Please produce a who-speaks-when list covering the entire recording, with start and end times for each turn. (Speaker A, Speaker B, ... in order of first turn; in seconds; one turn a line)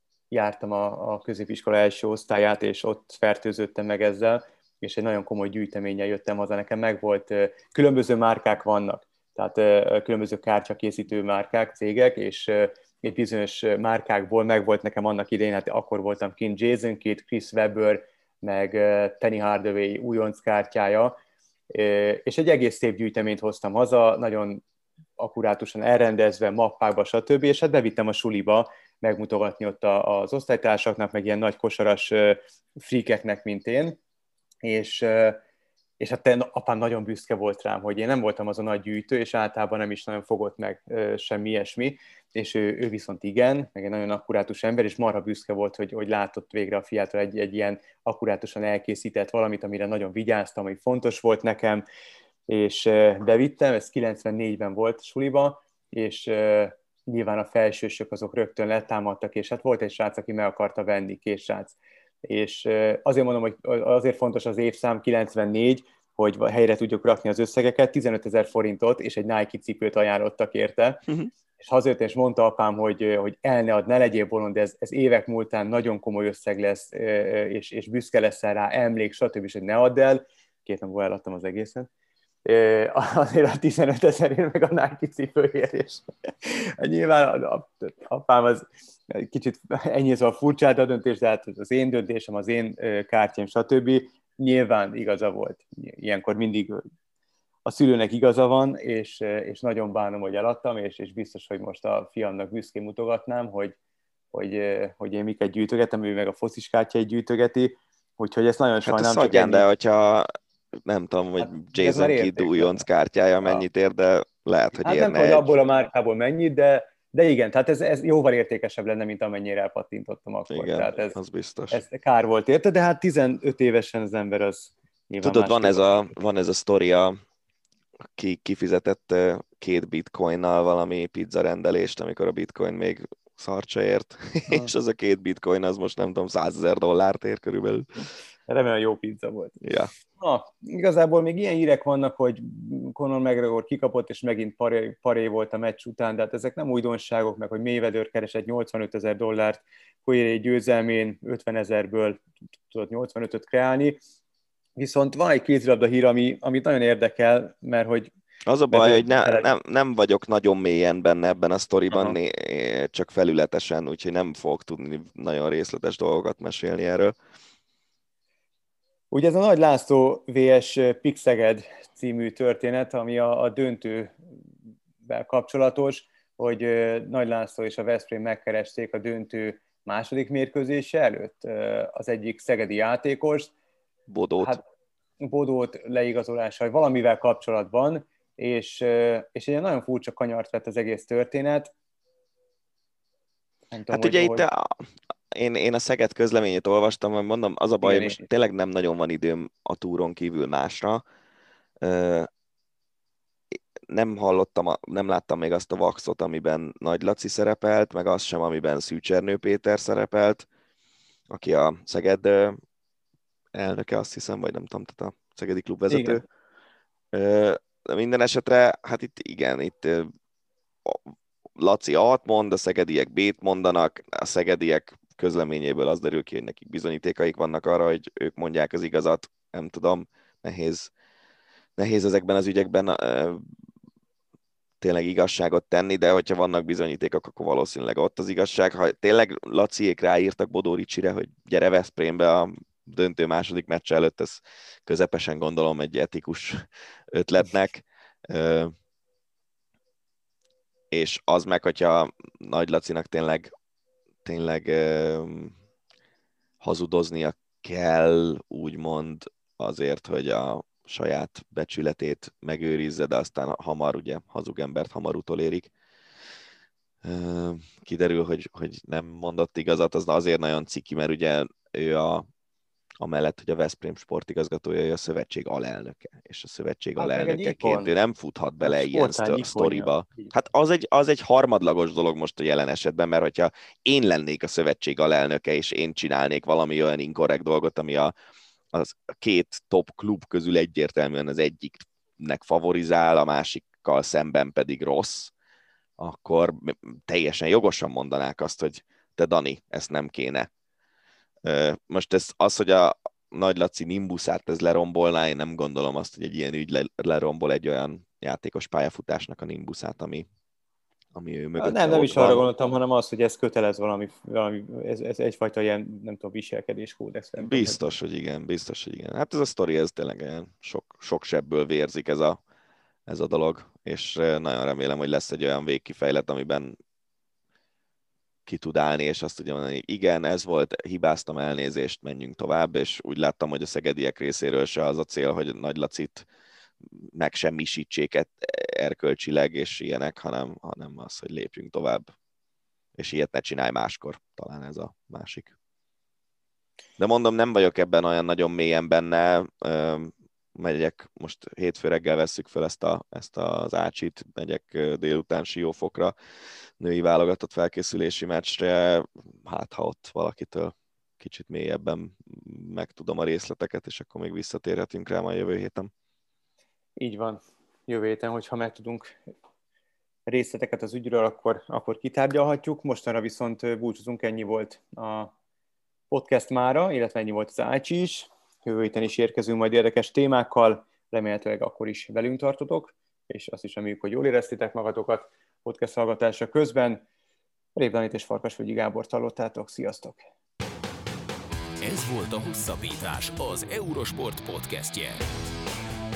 Speaker A: 0.3-21.2
Speaker A: 21.7-24.6
Speaker A: 25.2-34.0
Speaker A: 34.6-35.4
Speaker A: 36.0-51.8
Speaker A: 52.5-71.0
Speaker A: 71.6-81.9
Speaker A: 82.5-96.8
Speaker A: 97.7-103.8
Speaker A: 104.3-109.7
Speaker B: 108.8-110.3
Speaker B: 110.8-115.5
Speaker A: 111.4-112.8
Speaker A: 114.8-121.2
Speaker B: 120.5-121.8
Speaker A: 121.7-126.1
Speaker B: 125.2-127.2
Speaker B: 128.2-137.9
Speaker A: 138.5-139.6
Speaker B: 139.6-139.9
Speaker A: 140.2-154.0
Speaker A: 154.8-158.1
Speaker B: 158.5-167.2
Speaker A: 158.7-159.5
Speaker A: 161.9-162.2
Speaker A: 169.1-174.2
Speaker A: 175.1-183.5
Speaker B: 184.1-184.6
Speaker A: 184.4-184.6
Speaker A: 185.2-191.7
Speaker A: 193.7-194.4
Speaker B: 193.9-194.8
Speaker B: 195.3-201.0
Speaker A: 197.8-198.2
Speaker B: 201.8-202.3
Speaker B: 203.9-210.5
Speaker B: 211.3-212.6
Speaker B: 213.5-216.2
Speaker A: 215.9-216.2
Speaker B: 217.1-220.1
Speaker B: 221.6-230.9
Speaker B: 231.8-233.4
Speaker B: 234.8-248.7
Speaker B: 250.9-253.5
Speaker B: 254.2-255.6
Speaker B: 256.6-265.7
Speaker B: 267.0-272.3
Speaker B: 273.0-288.1
Speaker A: 277.0-277.9
Speaker A: 278.6-280.3
Speaker B: 288.7-295.3
Speaker B: 296.0-300.5
Speaker B: 301.4-310.3
Speaker B: 311.1-312.5
Speaker A: 311.6-317.8
Speaker B: 317.4-322.4
Speaker B: 323.1-326.8
Speaker B: 328.5-336.2
Speaker B: 337.0-342.1
Speaker B: 343.0-345.5
Speaker B: 347.0-356.1
Speaker B: 356.8-365.9
Speaker A: 367.0-369.2
Speaker A: 370.3-375.3
Speaker A: 376.1-387.0
Speaker A: 387.8-390.3
Speaker C: 391.8-395.2